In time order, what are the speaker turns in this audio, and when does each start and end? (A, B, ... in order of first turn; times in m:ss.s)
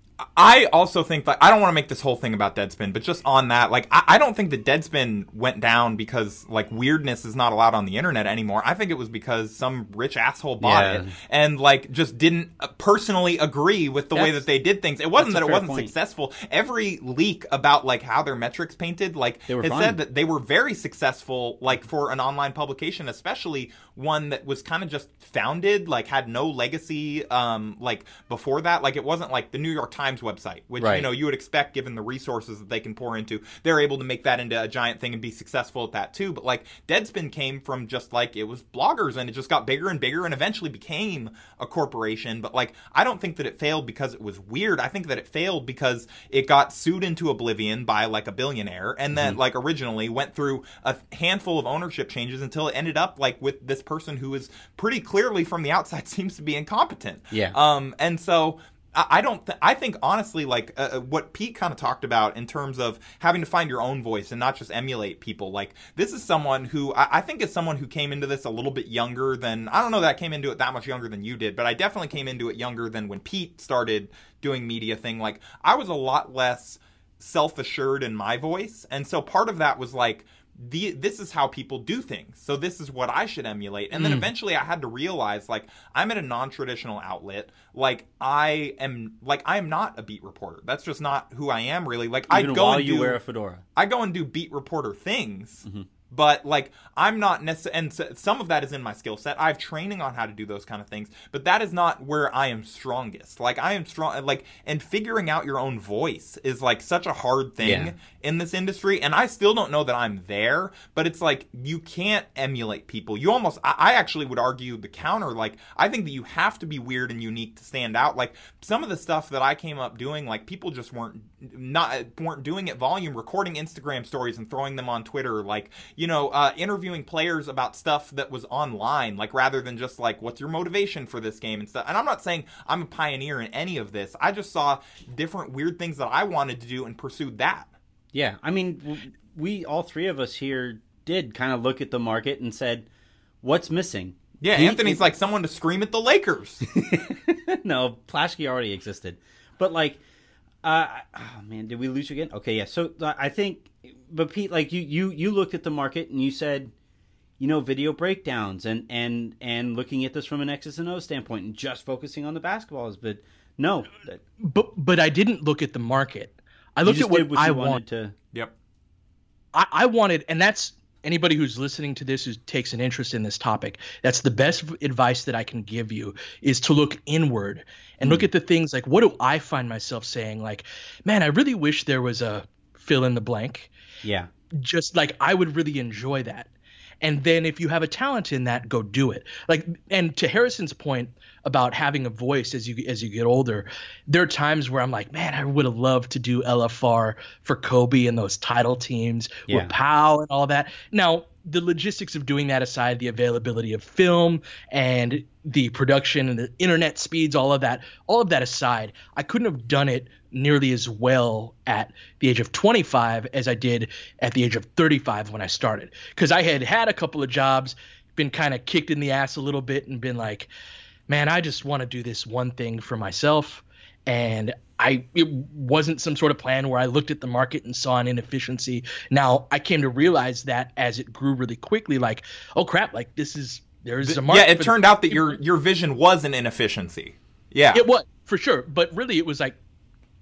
0:00.4-1:33.2 A
0:10.6-0:11.2 B
0:14.1-0:14.4 B
0:15.2-0:15.9 B
0:19.5-0:20.0 B
0:30.8-0:31.1 B
0:49.1-0:49.4 B
0:57.3-0:57.6 B
1:23.9-1:24.3 C
1:32.3-1:33.6 B
1:33.8-2:17.7 A
1:47.6-1:47.9 B
2:18.1-2:22.8 B
2:23.4-2:25.1 B
2:24.4-2:26.6 A
2:26.7-2:30.0 B
2:30.6-2:36.7 B
2:37.4-2:44.2 B
2:44.4-2:47.8 C
2:46.8-2:48.1 B
2:49.5-3:03.7 C
3:04.0-3:04.3 B
3:04.6-3:06.5 C
3:07.0-3:40.5 C
3:19.5-3:19.7 B
3:41.1-3:55.3 C
3:54.0-3:57.8 A
3:57.7-3:59.6 C